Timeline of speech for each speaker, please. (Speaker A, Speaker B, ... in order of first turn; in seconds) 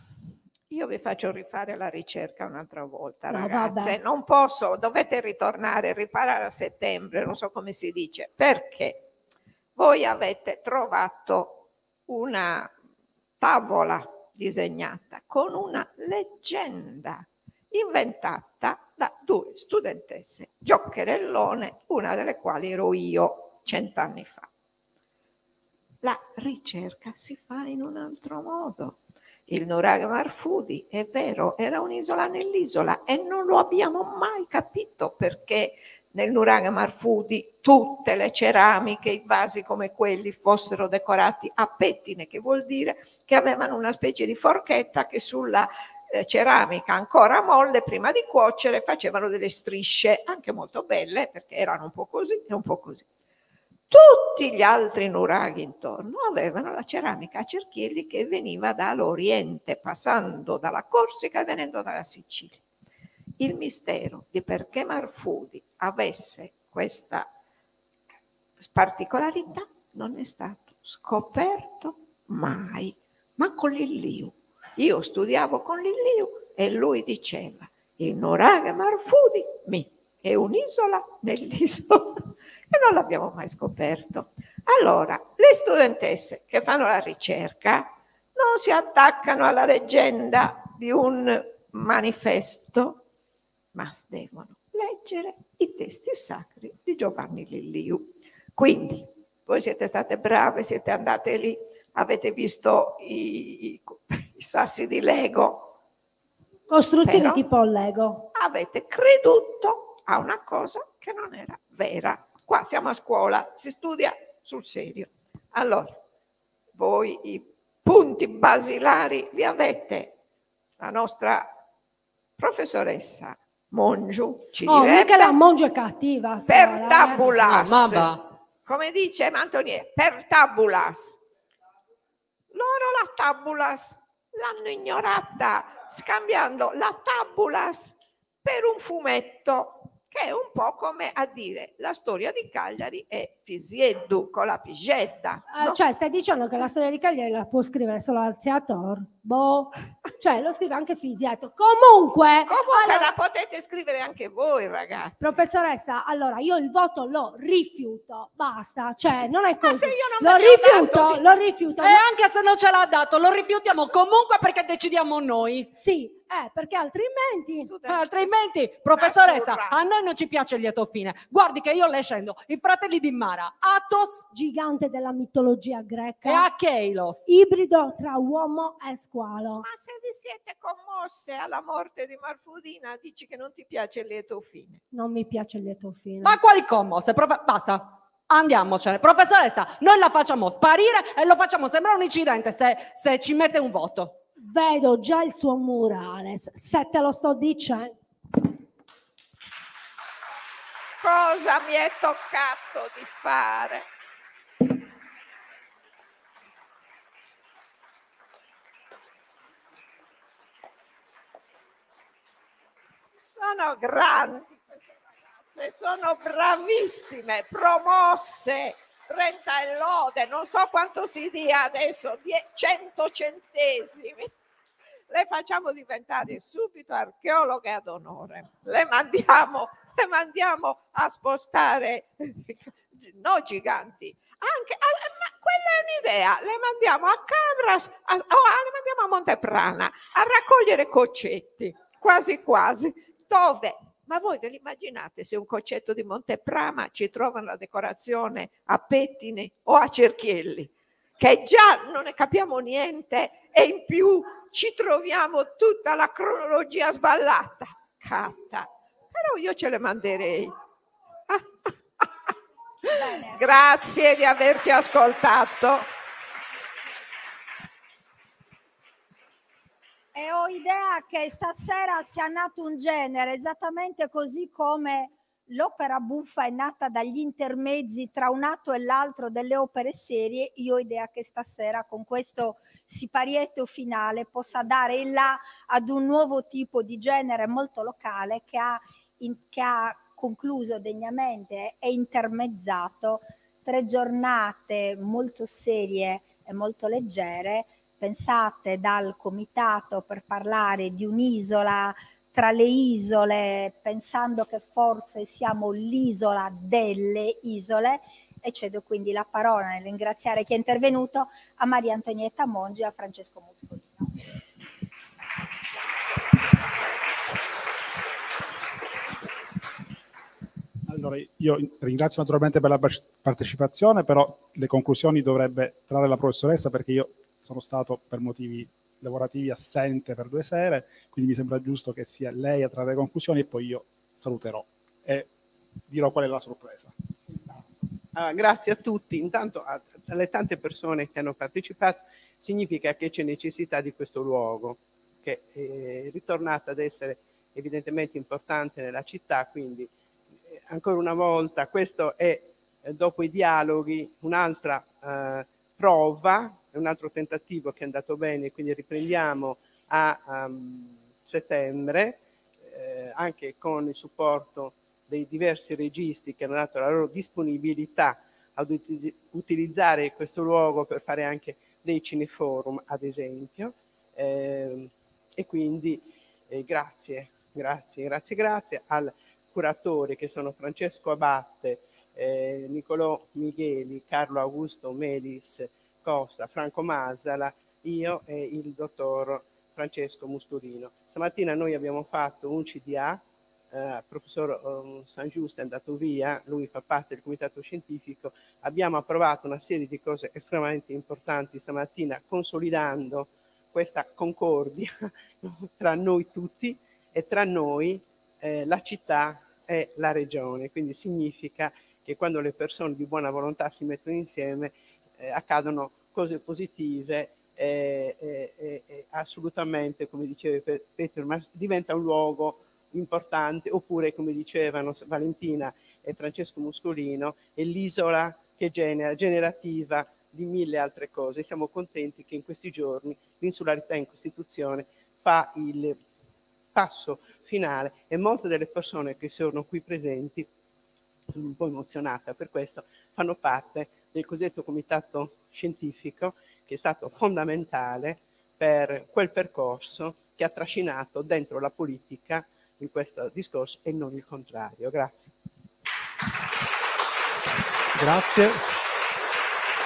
Speaker A: 0.7-9.1, 9.8-12.7, 13.4-24.5, 26.0-53.1, 53.9-62.6, 63.4-67.3, 68.6-93.0, 93.7-105.8, 107.0-107.4, 108.3-116.0, 116.7-120.2, 120.8-121.5, 122.4-125.3, 126.5-131.2, 132.5-145.8, 152.5-155.3, 159.6-161.3, 167.5-168.3, 168.9-169.8, 179.6-184.8, 201.0-203.9, 213.3-224.3, 225.1-260.5, 261.3-262.1, 262.9-265.9
Speaker B: 3.3-4.0, 106.7-108.3, 124.7-127.3, 145.5-153.1, 155.2-162.0, 165.7-167.7, 174.3-176.5, 177.3-179.7, 184.9-186.4, 194.4-197.9
Speaker C: 127.5-128.2, 161.8-165.7, 167.8-174.2, 176.2-177.3, 186.2-194.2
Speaker D: 262.8-263.5, 270.1-314.2
Speaker E: 320.9-335.3, 335.9-336.9, 457.9-458.6
Speaker F: 338.1-349.9, 350.5-436.0, 436.7-440.5, 441.3-455.3